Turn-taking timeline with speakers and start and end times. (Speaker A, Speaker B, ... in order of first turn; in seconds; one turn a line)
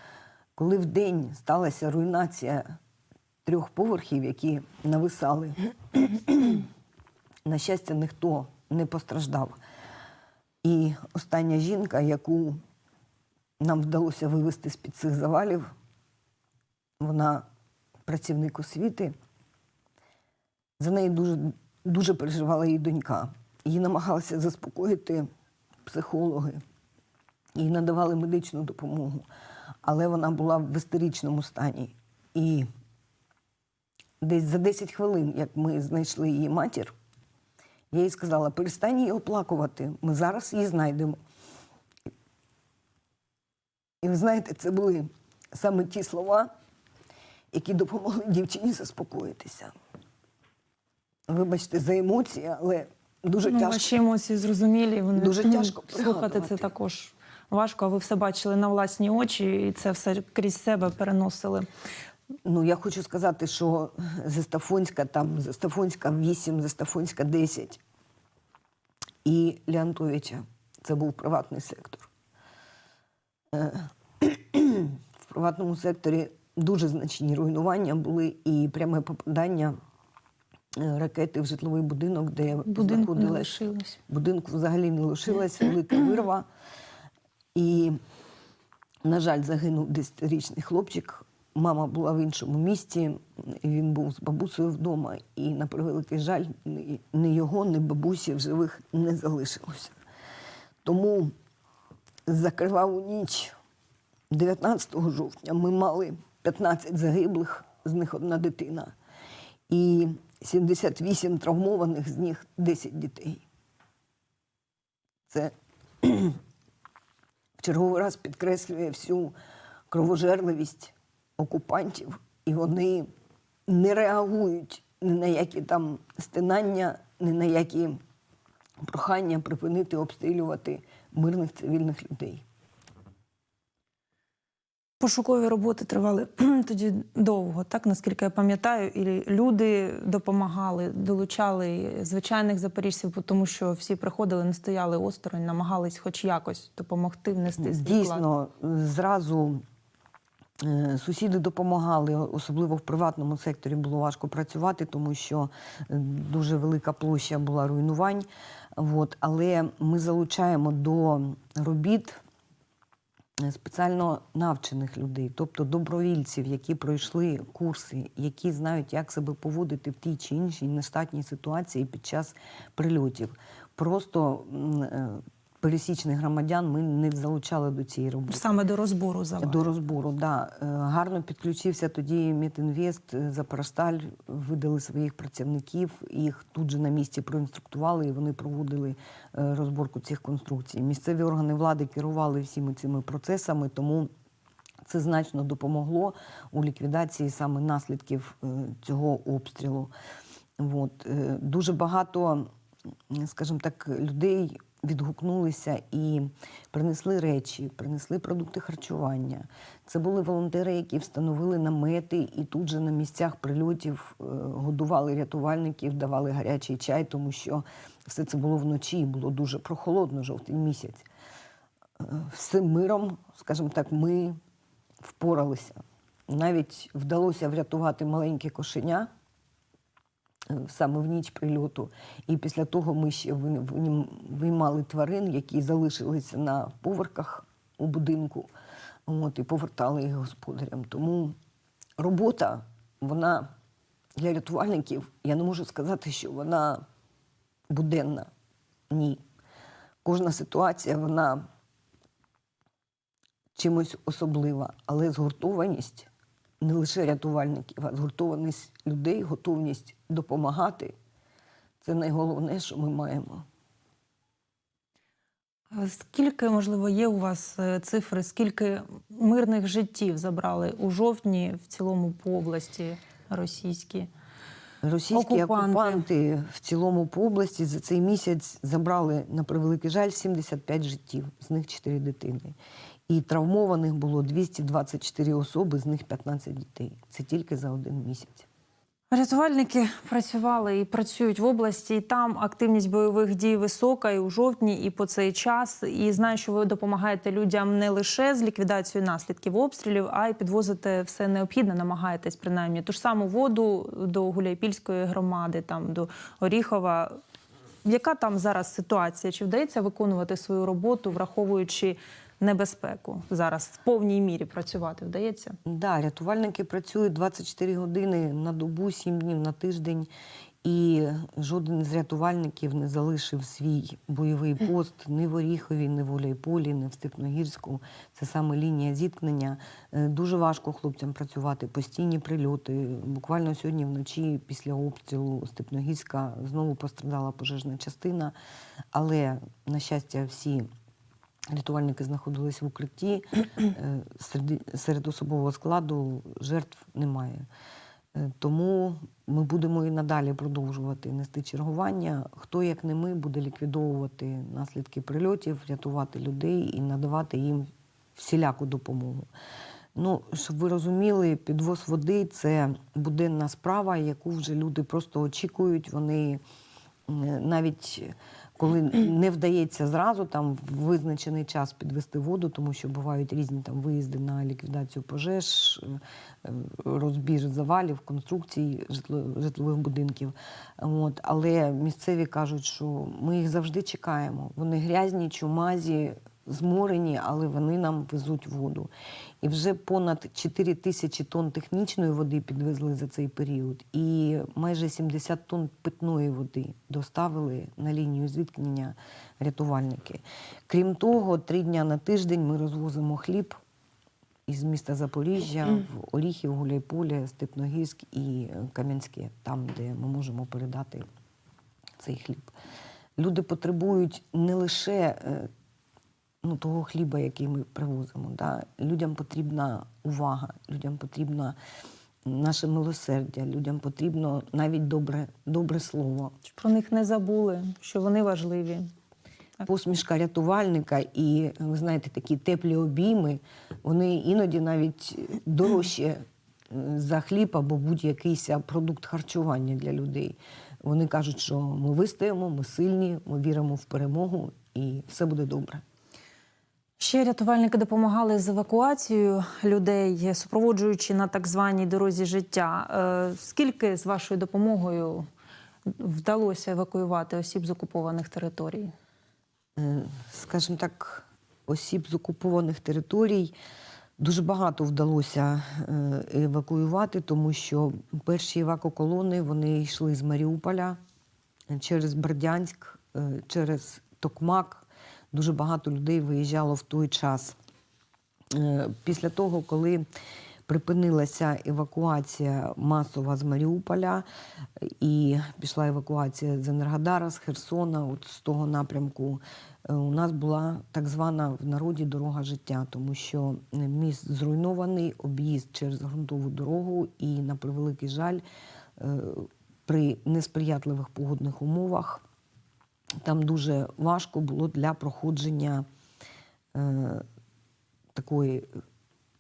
Speaker A: 0.6-2.7
Speaker A: 3.4-6.6
Speaker A: 7.5-9.6
Speaker A: 10.6-12.6
Speaker A: 13.6-15.7
Speaker A: 17.0-17.4
Speaker A: 18.1-19.1
Speaker A: 20.8-25.3
Speaker A: 25.9-26.6
Speaker A: 27.6-29.2
Speaker A: 29.8-32.7
Speaker A: 34.2-36.9
Speaker A: 37.9-41.2
Speaker A: 44.0-46.5
Speaker A: 47.5-49.7
Speaker A: 51.3-53.9
Speaker B: 53.5-61.7
Speaker A: 55.1-56.7
Speaker A: 62.4-67.8
Speaker A: 69.2-72.1
Speaker A: 73.5-79.8
Speaker A: 80.7-86.5
Speaker B: 82.7-84.0
Speaker A: 87.5-88.0
Speaker A: 89.0-99.9
Speaker A: 100.8-101.3
Speaker A: 102.3-103.5
Speaker A: 104.3-108.9
Speaker A: 109.7-113.4
Speaker A: 115.3-116.4
Speaker A: 117.6-119.4
Speaker A: 119.9-123.1
Speaker A: 123.7-128.0
Speaker A: 128.8-132.4
Speaker B: 135.0-148.2
Speaker A: 147.6-149.6
Speaker A: 150.6-162.2
Speaker A: 163.4-178.4
Speaker B: 178.3-179.7
Speaker A: 179.4-194.1
Speaker A: 194.8-199.9
Speaker A: 200.6-202.5
Speaker A: 203.1-221.1
Speaker A: 222.0-224.4
Speaker A: 225.0-229.1
Speaker A: 230.5-238.5
Speaker A: 239.1-241.4
Speaker A: 242.0-243.5
Speaker A: 244.2-246.8
Speaker A: 247.7-248.3
Speaker A: 248.9-249.2
Speaker A: 250.0-251.5
Speaker A: 253.6-256.1
Speaker A: 256.6-260.9
Speaker A: 261.8-263.4
Speaker B: 265.7-274.1
Speaker A: 274.8-282.6
Speaker B: 275.1-276.0
Speaker A: 283.1-288.5
Speaker B: 289.1-307.2
Speaker B: 307.8-315.6
Speaker A: 315.6-320.1
Speaker A: 320.6-338.4
Speaker A: 338.9-340.7
Speaker A: 341.5-347.4
Speaker A: 348.1-359.3
Speaker A: 359.9-366.4
Speaker A: 367.1-388.9
Speaker A: 389.4-403.6
Speaker A: 404.5-411.1
Speaker A: 412.0-412.5
Speaker A: 413.2-415.5
Speaker A: 416.4-421.6
Speaker A: 422.2-426.4
Speaker B: 426.5-428.9
Speaker A: 429.6-445.8
Speaker B: 447.0-455.3
Speaker B: 455.9-458.9
Speaker A: 459.8-463.6
Speaker A: 464.2-471.0
Speaker A: 471.7-477.6
Speaker A: 478.5-480.1
Speaker A: 480.7-484.2
Speaker A: 484.8-498.4
Speaker A: 499.0-502.2
Speaker A: 503.2-505.9
Speaker A: 506.7-507.2
Speaker A: 508.1-508.8